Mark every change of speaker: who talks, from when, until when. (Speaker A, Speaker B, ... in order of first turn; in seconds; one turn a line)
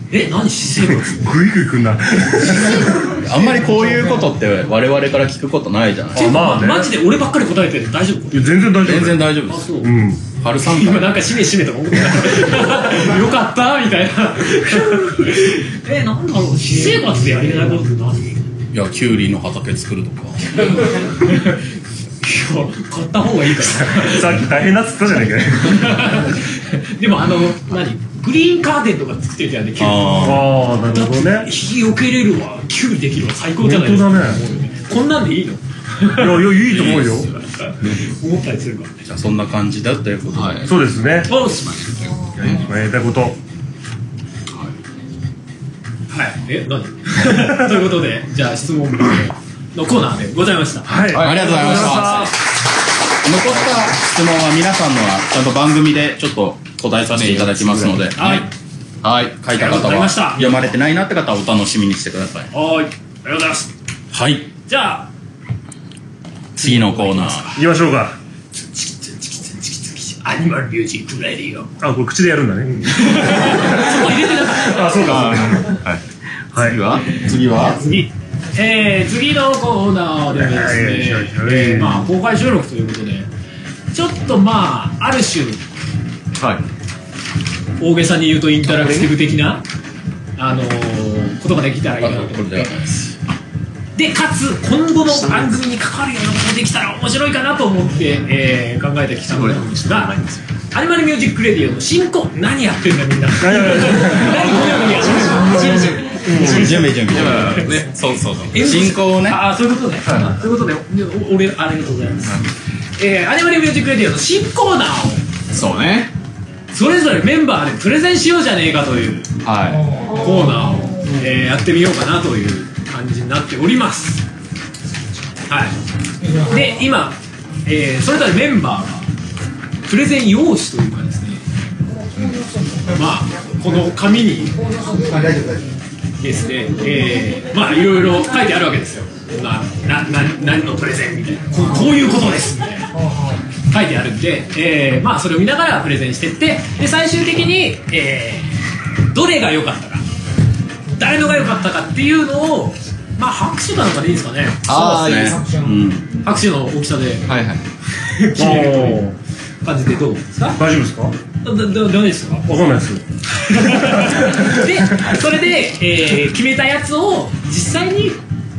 Speaker A: 0.1-1.3
Speaker B: 0.9-3.1
Speaker C: 3.0-6.7
Speaker B: 6.1-6.9
Speaker A: 6.2-8.7
Speaker B: 8.3-10.2
Speaker C: 8.8-9.8
Speaker A: 9.5-9.9
Speaker C: 10.4-11.2
Speaker A: 10.6-18.4
Speaker D: 16.7-17.4
Speaker C: 18.7-20.6
Speaker A: 21.1-21.6
Speaker A: 22.2-24.4
Speaker B: 23.8-26.3
Speaker A: 25.6-37.0
Speaker C: 29.8-30.5
Speaker B: 30.2-31.5
Speaker B: 33.6-34.4
Speaker B: 36.1-37.3
Speaker E: 36.7-38.1
Speaker A: 37.6-38.9
Speaker C: 39.0-40.7
Speaker E: 40.3-42.7
Speaker B: 40.7-41.3
Speaker A: 41.3-41.9
Speaker B: 42.5-43.4
Speaker A: 46.1-51.1
Speaker B: 50.9-52.3
Speaker E: 51.1-52.2
Speaker C: 51.1-52.3
Speaker A: 51.8-52.2
Speaker C: 53.2-58.5
Speaker E: 57.1-58.4
Speaker A: 58.2-58.5
Speaker E: 59.0-59.4
Speaker C: 59.4-62.5
Speaker A: 59.5-60.7
Speaker A: 62.5-63.7
Speaker C: 64.1-64.5
Speaker A: 64.7-65.1
Speaker C: 66.6-67.6
Speaker A: 66.6-67.5
Speaker B: 67.5-68.2
Speaker A: 68.6-71.7
Speaker B: 71.8-75.8
Speaker A: 72.9-75.3
Speaker E: 75.0-77.1
Speaker B: 76.5-76.8
Speaker C: 77.2-77.8
Speaker A: 77.7-83.3
Speaker B: 80.4-82.1
Speaker A: 83.9-85.6
Speaker E: 86.4-86.7
Speaker A: 87.8-89.6
Speaker A: 90.4-92.7
Speaker C: 92.0-93.2
Speaker A: 94.0-100.2
Speaker E: 95.0-95.6
Speaker E: 99.3-100.5
Speaker A: 100.7-106.6
Speaker B: 103.4-104.7
Speaker E: 104.5-108.2
Speaker B: 105.4-107.0
Speaker C: 106.4-109.4
Speaker A: 108.5-112.4
Speaker E: 110.1-110.3
Speaker A: 113.0-115.3
Speaker E: 115.5-116.1
Speaker A: 116.7-119.3
Speaker E: 119.4-120.0
Speaker D: 119.8-121.1
Speaker A: 120.1-124.2
Speaker A: 125.5-125.8
Speaker D: 126.2-126.8
Speaker A: 126.4-129.1
Speaker A: 129.8-131.4
Speaker E: 132.2-132.4
Speaker D: 132.4-132.8
Speaker A: 132.9-134.7
Speaker D: 134.6-135.7
Speaker A: 136.2-142.9
Speaker D: 143.0-143.4
Speaker A: 143.7-150.0
Speaker A: 150.9-154.8
Speaker E: 154.7-155.4
Speaker C: 154.7-156.1
Speaker D: 155.1-155.8
Speaker A: 156.2-157.3
Speaker E: 157.3-157.6
Speaker A: 158.0-159.1
Speaker B: 158.4-159.2
Speaker A: 159.6-160.6
Speaker B: 160.6-161.2
Speaker A: 161.4-162.6
Speaker B: 162.5-163.0
Speaker A: 163.3-168.2
Speaker B: 163.6-165.1